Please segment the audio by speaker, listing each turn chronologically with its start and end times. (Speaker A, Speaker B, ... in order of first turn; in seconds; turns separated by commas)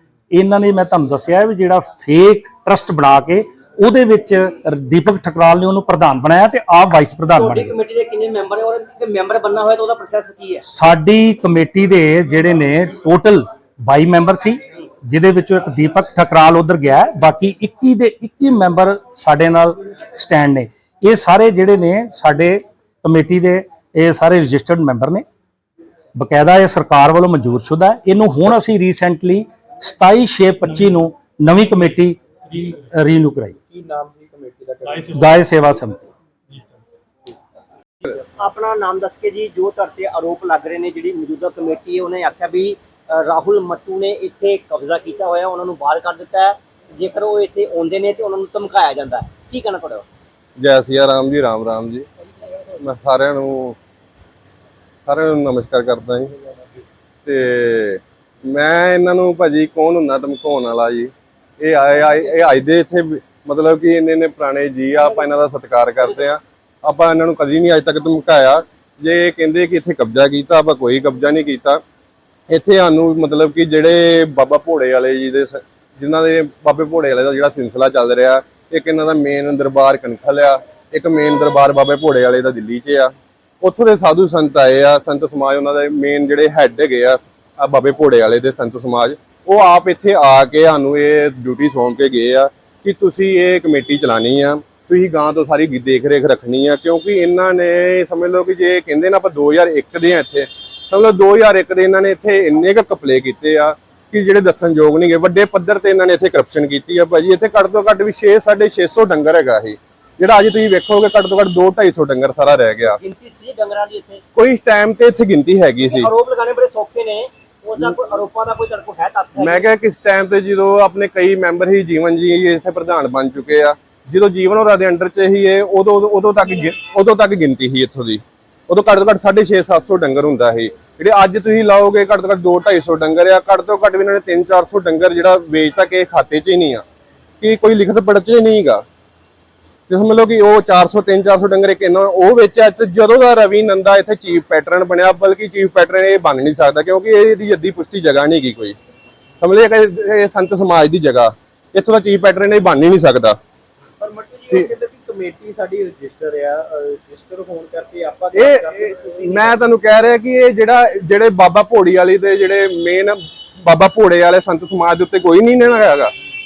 Speaker A: 0.3-7.7, Speaker B: 7.3-10.7, Speaker A: 10.7-25.2, Speaker A: 26.1-33.5, Speaker C: 33.7-35.4, Speaker A: 34.9-36.0, Speaker B: 38.4-50.0, Speaker D: 50.6-52.1, Speaker D: 52.8-53.8, Speaker D: 55.1-56.3, Speaker D: 57.2-71.8, Speaker D: 72.5-113.0, Speaker B: 113.0-114.2, Speaker D: 114.3-116.1, Speaker B: 115.8-119.7, Speaker D: 119.4-136.8, Speaker D: 137.4-138.8, Speaker D: 139.9-148.8, Speaker D: 149.4-153.4, Speaker C: 154.0-159.6, Speaker D: 158.3-166.1